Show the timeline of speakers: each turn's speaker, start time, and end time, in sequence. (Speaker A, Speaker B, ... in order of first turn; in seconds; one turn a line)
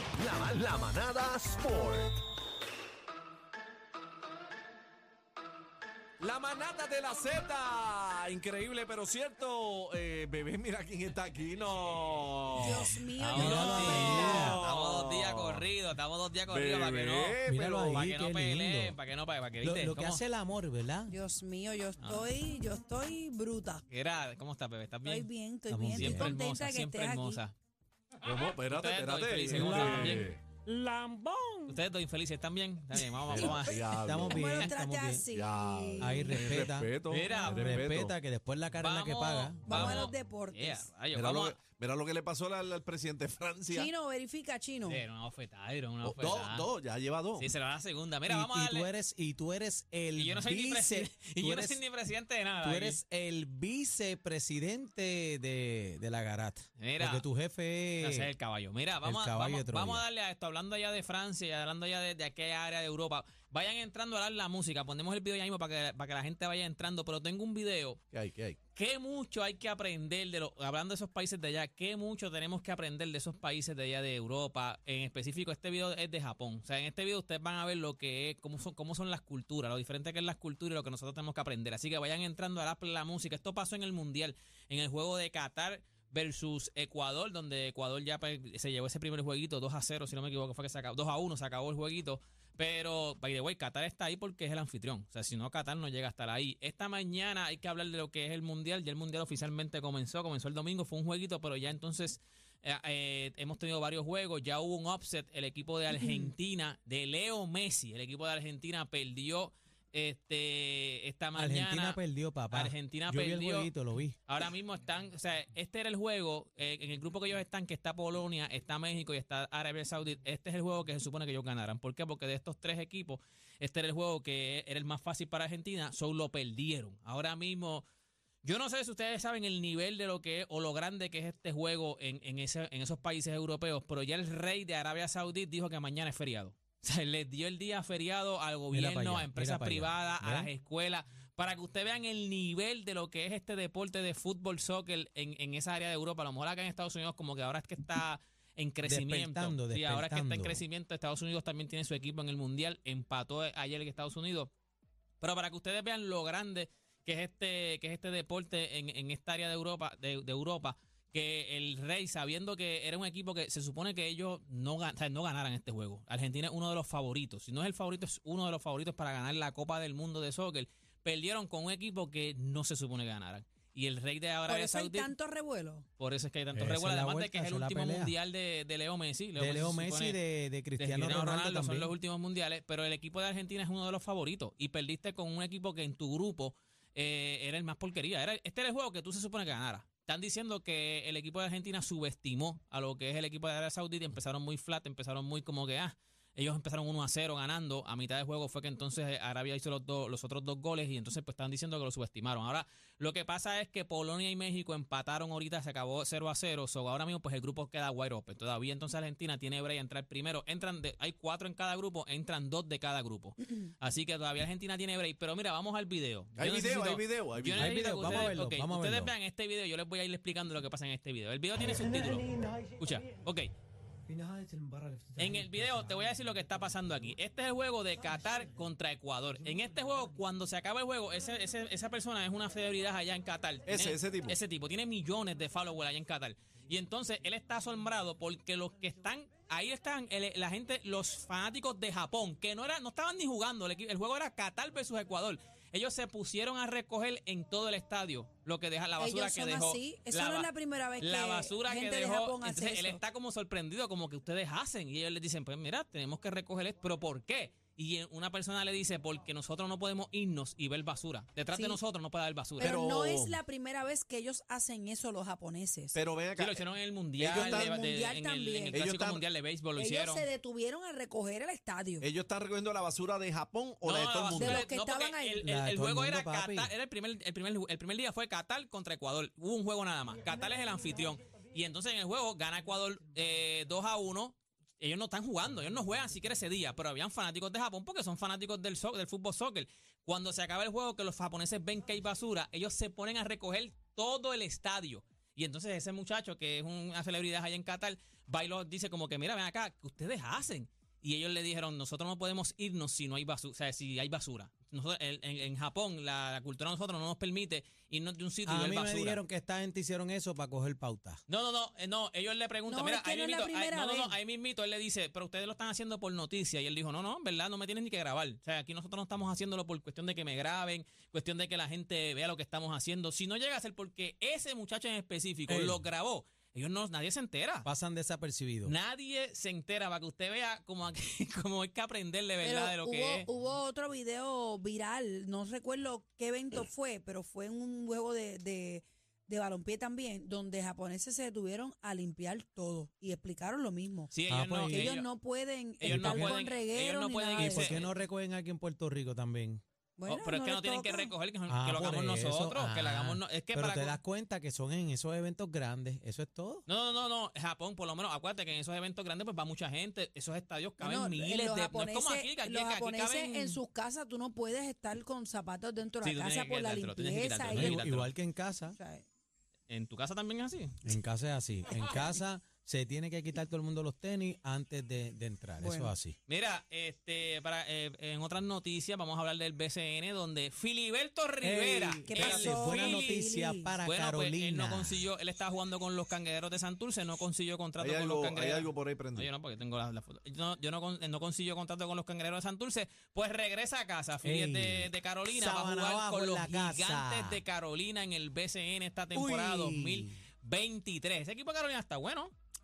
Speaker A: 0.1-2.1
Speaker B: 6.2-13.0
Speaker C: 12.5-14.6
Speaker D: 13.2-20.2
Speaker E: 13.3-14.6
Speaker B: 13.7-15.6
Speaker B: 16.5-18.0
Speaker E: 17.4-19.0
Speaker E: 19.6-21.1
Speaker C: 21.1-23.8
Speaker D: 22.0-22.3
Speaker D: 23.9-25.3
Speaker C: 25.0-27.4
Speaker E: 25.7-26.3
Speaker D: 25.9-27.5
Speaker B: 28.2-30.4
Speaker D: 28.3-30.3
Speaker E: 29.5-31.8
Speaker D: 31.7-33.9
Speaker E: 33.2-35.3
Speaker B: 33.3-34.5
Speaker C: 34.2-36.3
Speaker B: 35.3-38.1
Speaker E: 36.0-40.0
Speaker D: 37.1-37.8
Speaker D: 38.8-41.6
Speaker C: 39.7-41.0
Speaker B: 41.1-43.9
Speaker C: 43.7-45.0
Speaker D: 44.8-46.7
Speaker B: 46.0-47.5
Speaker D: 47.4-48.9
Speaker E: 48.3-51.8
Speaker D: 50.1-53.0
Speaker E: 52.6-58.3
Speaker D: 56.8-57.2
Speaker D: 58.0-68.0
Speaker E: 59.0-60.0
Speaker B: 68.1-68.5
Speaker D: 68.7-112.0
Speaker C: 105.9-106.3
Speaker E: 111.3-114.2
Speaker D: 112.5-113.7
Speaker D: 114.3-127.8
Speaker D: 128.4-154.5
Speaker E: 138.7-140.5
Speaker E: 148.8-150.6
Speaker D: 155.2-175.1
Speaker C: 174.5-175.8
Speaker D: 176.0-180.2
Speaker E: 176.5-178.1
Speaker E: 179.4-181.9
Speaker D: 180.8-223.5
Speaker B: 216.4-218.3
Speaker E: 217.5-219.1
Speaker E: 221.6-222.8
Speaker E: 224.1-225.8
Speaker D: 225.2-262.8
Speaker B: 233.7-234.3
Speaker C: 249.0-253.0
Speaker C: 261.5-261.8
Speaker C: 262.6-266.0
Speaker B: 262.6-263.4
Speaker B: 265.9-266.6
Speaker D: 266.4-270.2
Speaker B: 267.2-267.8
Speaker C: 267.3-268.8
Speaker B: 268.7-269.2
Speaker C: 269.8-272.1
Speaker B: 272.0-274.7
Speaker D: 273.8-309.2
Speaker C: 274.3-275.4
Speaker E: 275.4-276.7
Speaker E: 308.4-311.2
Speaker D: 311.3-327.7
Speaker C: 312.7-314.1
Speaker E: 325.5-325.8
Speaker E: 327.6-328.7
Speaker D: 328.6-333.3
Speaker C: 332.4-344.1
Speaker D: 344.1-345.1
Speaker E: 344.3-344.9
Speaker C: 344.6-347.8
Speaker D: 345.8-347.9
Speaker E: 345.8-346.4
Speaker E: 347.4-349.6
Speaker C: 350.0-351.1
Speaker D: 350.1-354.0
Speaker E: 351.5-356.6
Speaker D: 356.7-363.6
Speaker C: 360.8-367.8
Speaker D: 366.0-368.1
Speaker E: 367.5-368.8
Speaker C: 368.8-369.0
Speaker D: 369.7-370.9
Speaker E: 370.8-376.1
Speaker C: 375.6-375.9
Speaker D: 376.3-383.2
Speaker E: 381.4-385.1
Speaker C: 382.0-383.8
Speaker D: 383.8-402.3
Speaker B: 387.8-389.3
Speaker E: 394.2-397.4
Speaker E: 399.1-400.2